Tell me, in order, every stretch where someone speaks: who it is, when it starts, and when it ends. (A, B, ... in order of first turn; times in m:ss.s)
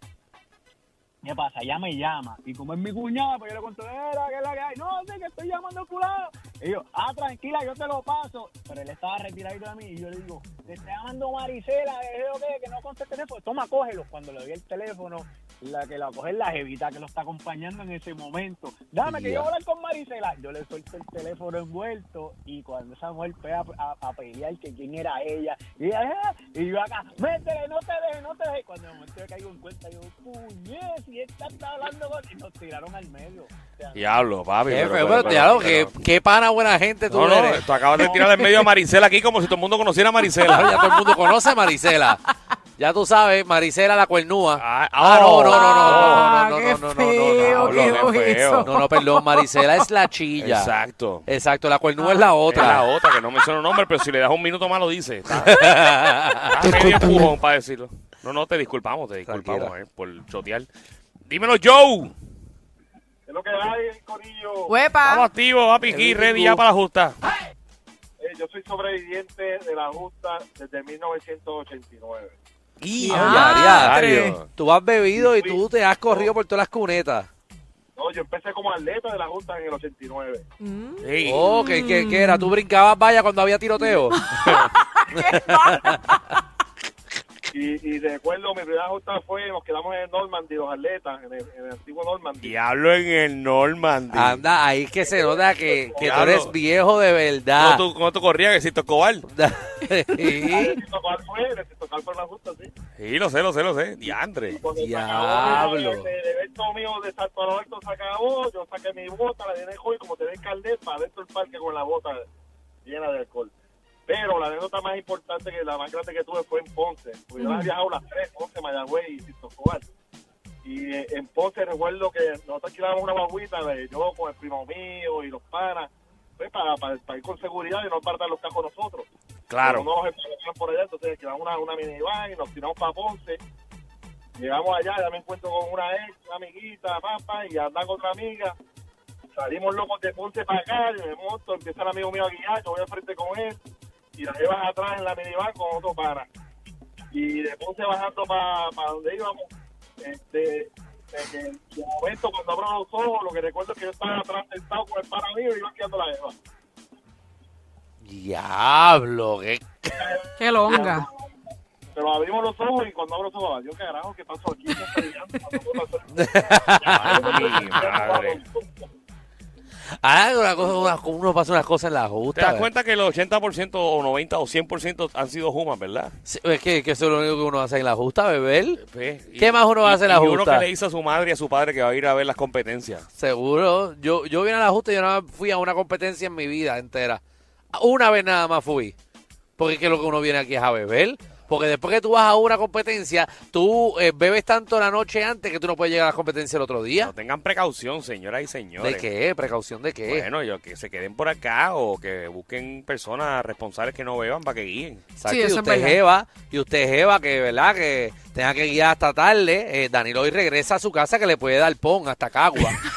0:01.2-0:34.2 A
0:19.0-0:19.5 B
0:33.9-0:36.0 C
0:34.7-0:38.2 B
0:35.0-0:35.6 A
0:37.1-0:40.8 C
0:40.5-0:42.2 B
0:40.9-0:41.3 D
0:42.8-0:48.1 B
0:44.6-0:46.3 C
0:45.5-0:49.5 D
0:47.4-0:48.7 C
0:48.6-0:50.7 B
0:50.4-0:51.3 C
0:51.3-0:52.9 B
0:52.0-0:52.3 D
0:52.5-0:55.6 C
0:55.4-0:57.3 B
0:56.5-1:00.7 C
0:59.3-0:59.7 B
1:01.3-1:02.1 C
1:03.3-1:04.7 E
1:04.7-1:05.3 D
1:05.0-1:07.2 C
1:05.8-1:06.6 B
1:08.2-1:12.4 E
1:12.8-1:17.3 B
1:13.0-1:14.4 D
1:13.0-1:14.5 C
1:15.2-1:16.3 E
1:18.0-1:20.4 E
1:20.6-1:22.5 D
1:21.0-1:21.5 C
1:21.2-1:24.2 B
1:23.8-1:24.0 E
1:24.1-1:26.2 D
1:25.1-1:26.0 B
1:27.5-1:32.6 E
1:32.4-1:34.4 C
1:34.1-1:37.8 B
1:35.0-1:36.3 E
1:36.0-1:36.5 C
1:37.6-1:39.3 C
1:39.2-1:40.8 B
1:40.3-1:42.7 E
1:43.0-1:44.6 C
1:44.1-1:52.2 E
1:44.8-1:46.1 B
1:52.8-1:53.5 E
1:54.1-1:59.9 E
1:57.4-1:57.7 D
2:00.6-2:09.1 E
2:09.5-2:09.9 C
2:09.6-2:13.4 E
2:14.4-2:18.6 E
2:19.4-2:23.6 E
2:24.2-2:26.3 E
2:27.1-2:29.5 E
2:30.0-2:36.3 E
2:38.0-2:40.0 B
2:39.9-2:41.3 E
2:40.4-2:41.1 D
2:41.9-2:48.9 E
2:46.1-2:47.8 B
2:46.9-2:48.4 C
2:50.0-2:52.7 B
2:52.4-2:56.1 C
2:56.3-2:58.8 B
2:58.8-3:03.1 C
2:59.4-3:00.7 B
3:03.2-3:07.2 B
3:07.7-3:08.9 B
3:09.6-3:17.1 B
3:17.0-3:19.0 C
3:18.8-3:20.3 B
3:20.1-3:25.0 C
3:25.2-3:32.8 B
3:25.3-3:26.0 D